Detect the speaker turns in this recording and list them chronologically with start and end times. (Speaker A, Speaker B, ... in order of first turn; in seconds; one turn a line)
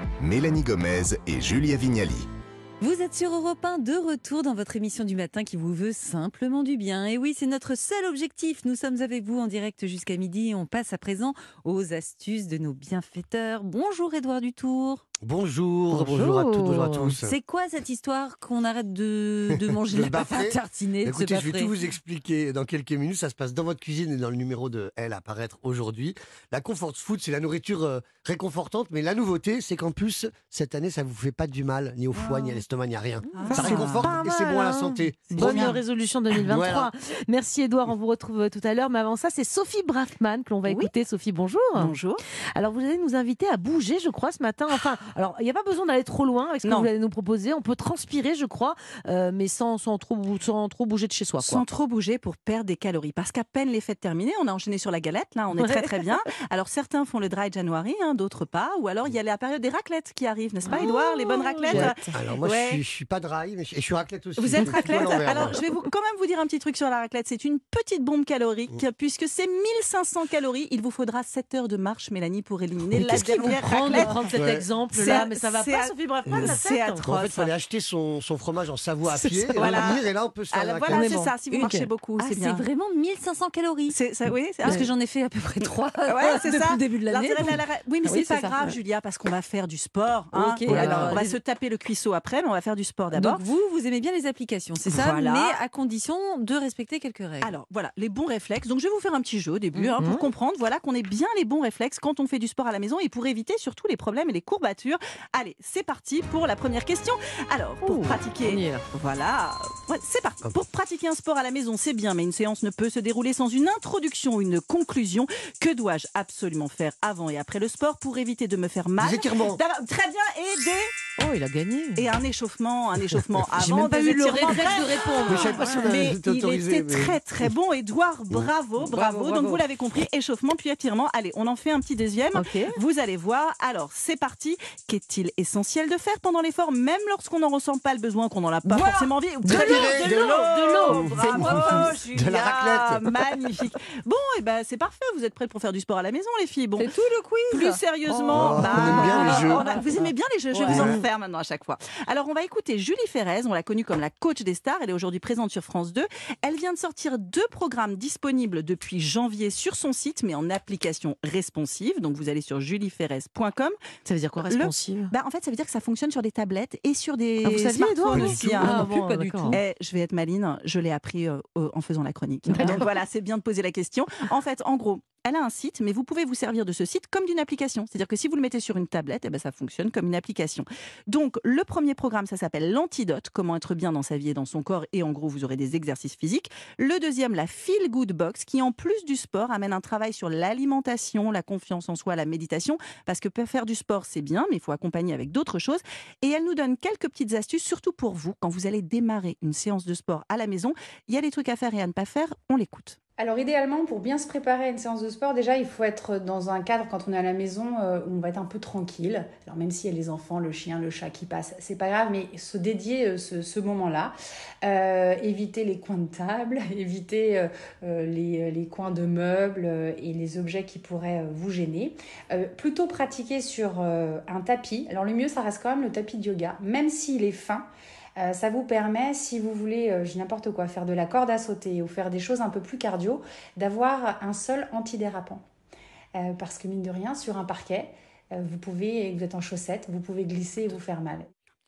Speaker A: 0.2-2.3
Speaker B: 2.8-15.0
Speaker C: 15.2-17.4
Speaker D: 15.9-17.2
Speaker B: 17.2-21.8
Speaker C: 19.5-35.8
Speaker E: 33.4-34.2
Speaker D: 33.5-41.9
Speaker E: 35.3-35.8
Speaker C: 36.5-36.9
Speaker E: 40.7-40.9
Speaker E: 41.8-42.2
Speaker D: 42.5-51.6
Speaker E: 46.6-46.9
Speaker E: 51.4-62.8
Speaker D: 55.5-56.2
Speaker D: 60.7-62.0
Speaker C: 61.7-65.6
Speaker E: 64.4-74.3
Speaker D: 73.0-77.0
Speaker C: 73.0-73.3
Speaker C: 74.0-74.7
Speaker E: 74.9-77.5
Speaker C: 76.3-81.1
Speaker D: 79.1-79.9
Speaker E: 79.6-82.7
Speaker D: 80.9-81.9
Speaker B: 82.2-84.0
Speaker E: 83.9-84.9
Speaker B: 84.6-88.6
Speaker E: 86.1-93.5
Speaker B: 90.3-91.4
Speaker D: 90.7-91.2
Speaker B: 93.1-97.5
Speaker E: 94.9-95.6
Speaker E: 97.4-120.9
Speaker D: 99.8-100.3
Speaker D: 107.8-108.8
Speaker C: 119.0-119.6
Speaker D: 121.2-122.1
Speaker E: 122.0-146.9
Speaker D: 123.5-126.0
Speaker C: 125.3-127.5
Speaker B: 128.8-129.5
Speaker D: 132.3-132.8
Speaker B: 138.7-139.0
Speaker D: 139.4-141.1
Speaker C: 139.5-143.1
Speaker B: 140.9-141.9
Speaker B: 146.8-149.7
Speaker E: 147.5-163.8
Speaker C: 148.3-149.6
Speaker D: 150.7-151.0
Speaker C: 150.7-151.0
Speaker D: 164.1-165.1
Speaker E: 164.5-203.0
Speaker D: 167.4-169.6
Speaker C: 168.1-168.8
Speaker B: 169.0-169.4
Speaker D: 172.5-172.9
Speaker F: 203.2-227.7
Speaker F: 228.2-235.4
Speaker F: 236.2-241.3